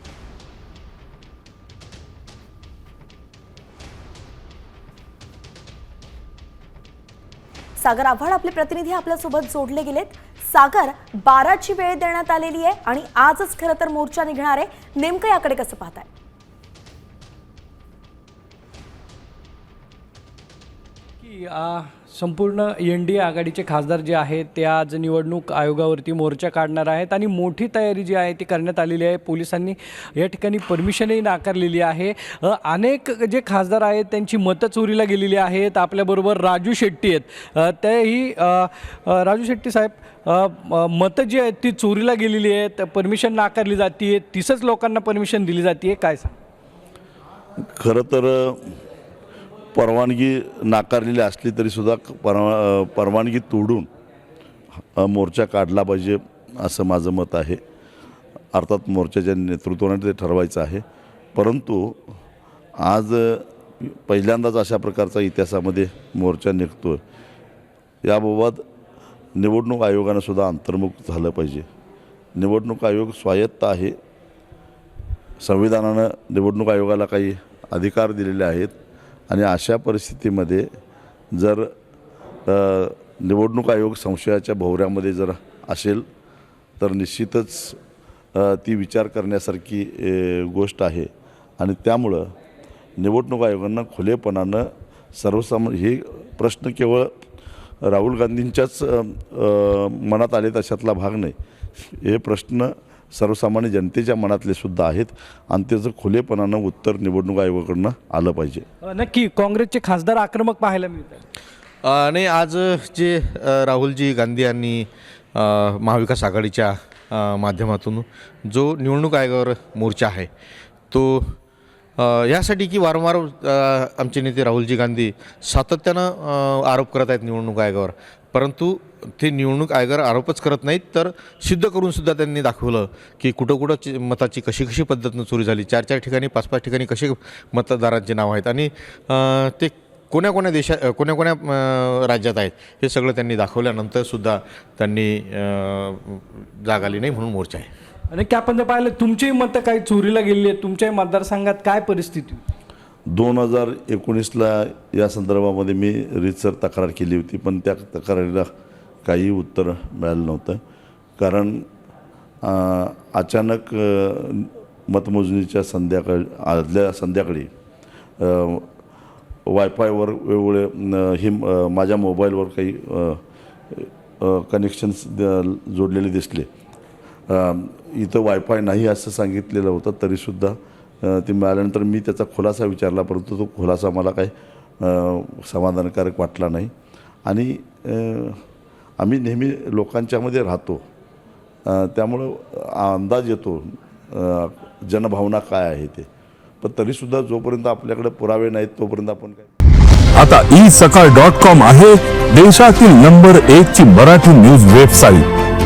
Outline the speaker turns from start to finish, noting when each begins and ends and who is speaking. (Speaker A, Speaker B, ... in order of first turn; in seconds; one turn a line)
Speaker A: 7.8-16.1
Speaker B: 21.2-46.4
Speaker C: 47.6-48.7
Speaker C: 49.8-53.9
Speaker C: 55.0-57.6
Speaker C: 58.5-60.8
Speaker C: 61.4-62.0
Speaker C: 62.8-67.0
Speaker C: 68.0-68.6
Speaker C: 69.4-71.7
Speaker C: 72.4-74.0
Speaker C: 75.4-78.7
Speaker C: 79.3-80.7
Speaker C: 81.3-81.7
Speaker C: 82.5-86.0
Speaker C: 86.8-87.8
Speaker C: 88.3-92.3
Speaker C: 93.0-97.1
Speaker C: 97.8-108.6
Speaker B: 108.8-111.2
Speaker D: 111.8-120.3
Speaker D: 120.9-121.4
Speaker D: 122.0-147.7
Speaker B: 148.1-152.4
Speaker C: 153.1-158.5
Speaker C: 159.1-160.6
Speaker C: 161.2-161.7
Speaker C: 162.4-167.5
Speaker C: 168.2-168.7
Speaker C: 169.5-173.2
Speaker C: 173.7-176.5
Speaker C: 177.3-186.7
Speaker C: 187.3-188.4
Speaker C: 189.0-190.8
Speaker C: 191.7-196.1
Speaker C: 196.6-199.5
Speaker E: 200.2-205.3